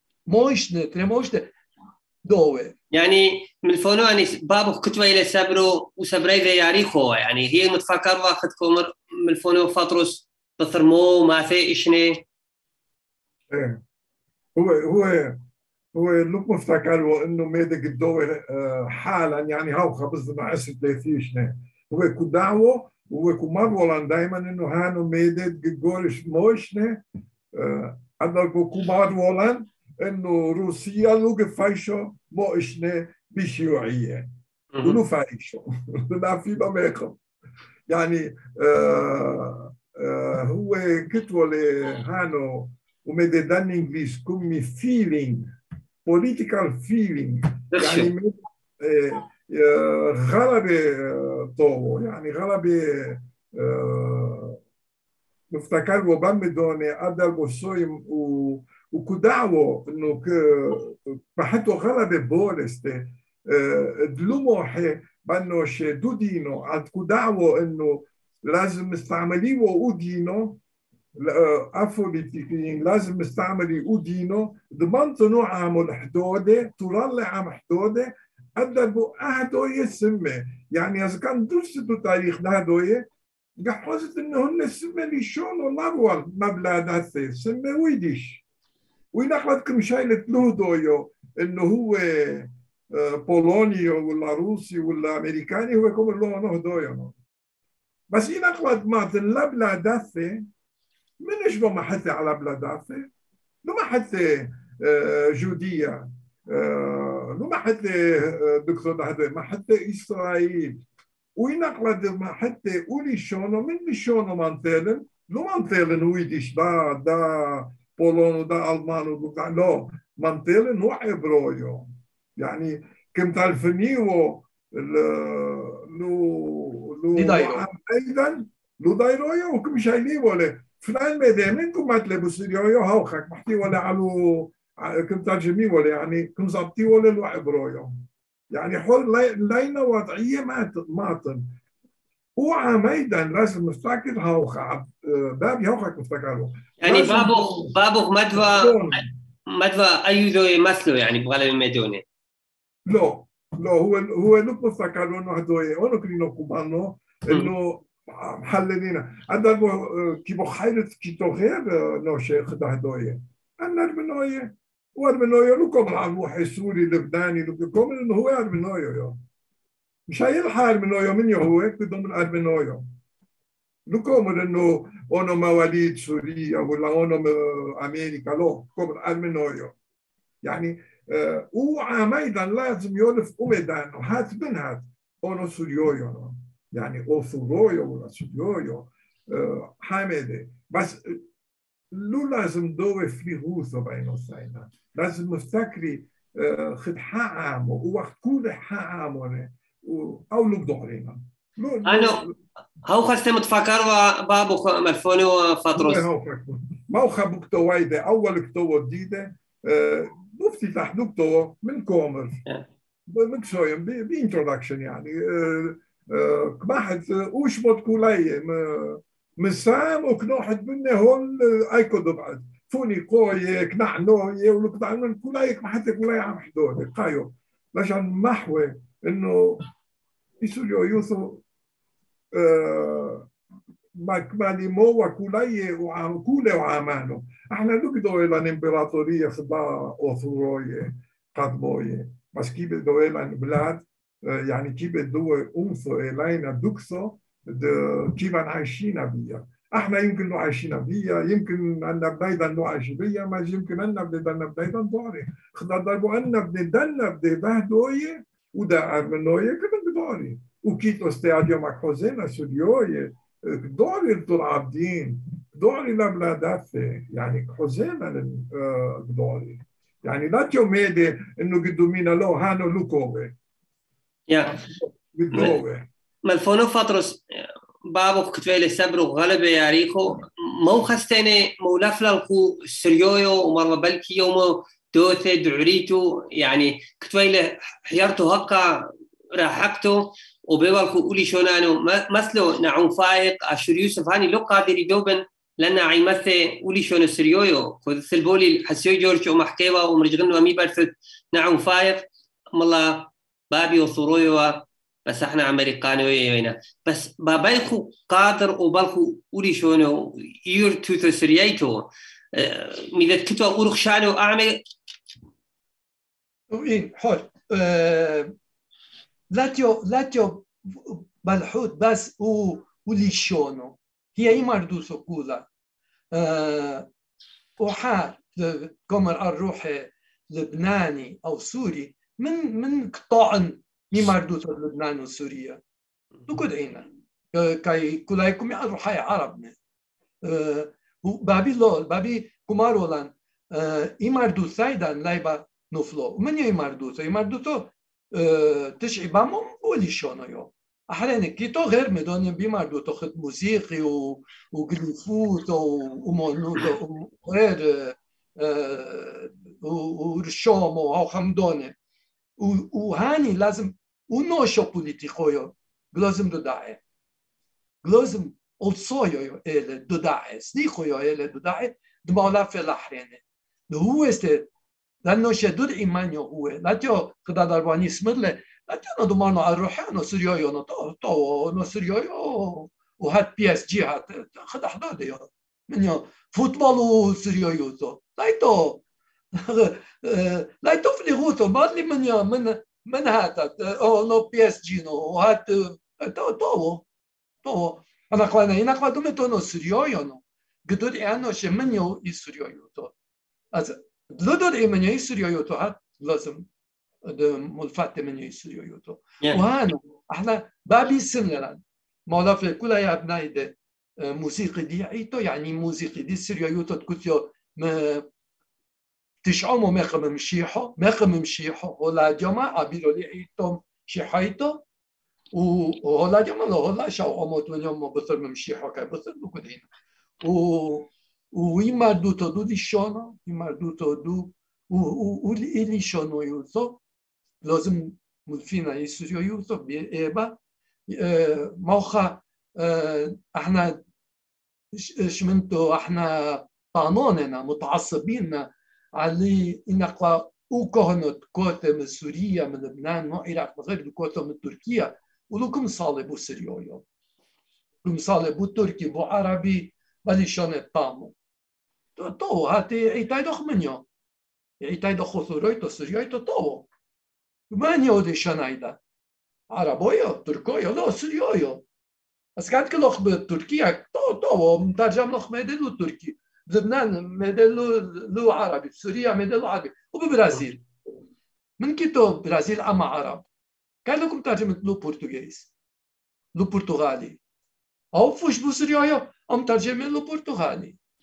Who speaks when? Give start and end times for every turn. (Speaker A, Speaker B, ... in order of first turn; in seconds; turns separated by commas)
Speaker A: 0.3-1.5, Speaker A: 2.2-2.7, Speaker B: 2.9-12.2, Speaker C: 13.5-13.8, Speaker C: 14.6-15.4, Speaker C: 15.9-27.0, Speaker C: 27.5-34.3, Speaker B: 34.7-35.0, Speaker C: 34.8-37.2, Speaker C: 37.9-45.5, Speaker C: 46.1-54.6, Speaker B: 47.7-48.1, Speaker C: 55.5-70.6, Speaker C: 71.2-83.1, Speaker C: 83.6-88.4, Speaker C: 89.1-97.2, Speaker C: 98.1-100.5, Speaker C: 101.2-103.1, Speaker C: 103.6-110.8, Speaker C: 111.4-137.9, Speaker A: 127.1-127.7, Speaker C: 138.5-141.5, Speaker C: 142.4-147.8, Speaker B: 146.8-149.0, Speaker C: 148.3-149.1, Speaker B: 149.5-152.0, Speaker C: 152.9-169.2, Speaker C: 170.1-172.8, Speaker C: 173.9-179.8, Speaker C: 180.4-191.2, Speaker C: 191.9-202.3, Speaker B: 201.8-202.2, Speaker B: 202.8-206.0, Speaker C: 205.8-212.4, Speaker C: 213.1-229.7, Speaker C: 230.4-231.4, Speaker C: 232.3-233.3, Speaker C: 234.0-273.4, Speaker B: 274.3-274.6, Speaker C: 274.4-275.9, Speaker B: 275.3-275.6, Speaker B: 276.2-314.6, Speaker A: 316.5-318.3, Speaker A: 319.3-325.5, Speaker A: 326.1-326.9, Speaker A: 327.6-335.6, Speaker A: 336.3-339.6, Speaker A: 340.2-361.8, Speaker A: 362.4-366.8, Speaker A: 367.8-374.5, Speaker A: 375.1-388.8, Speaker A: 389.4-396.9, Speaker A: 397.4-402.9, Speaker A: 403.5-406.5, Speaker A: 407.1-418.1, Speaker A: 419.2-424.6, Speaker A: 425.3-429.7, Speaker A: 430.2-436.8, Speaker A: 437.4-440.4, Speaker A: 440.9-443.8, Speaker A: 444.7-456.8, Speaker A: 457.8-461.1, Speaker A: 462.0-463.9, Speaker A: 464.6-466.7, Speaker A: 467.5-468.8, Speaker A: 469.5-471.6, Speaker A: 472.4-480.7, Speaker A: 481.6-483.3, Speaker A: 483.9-485.5, Speaker A: 486.4-487.2, Speaker A: 487.9-490.8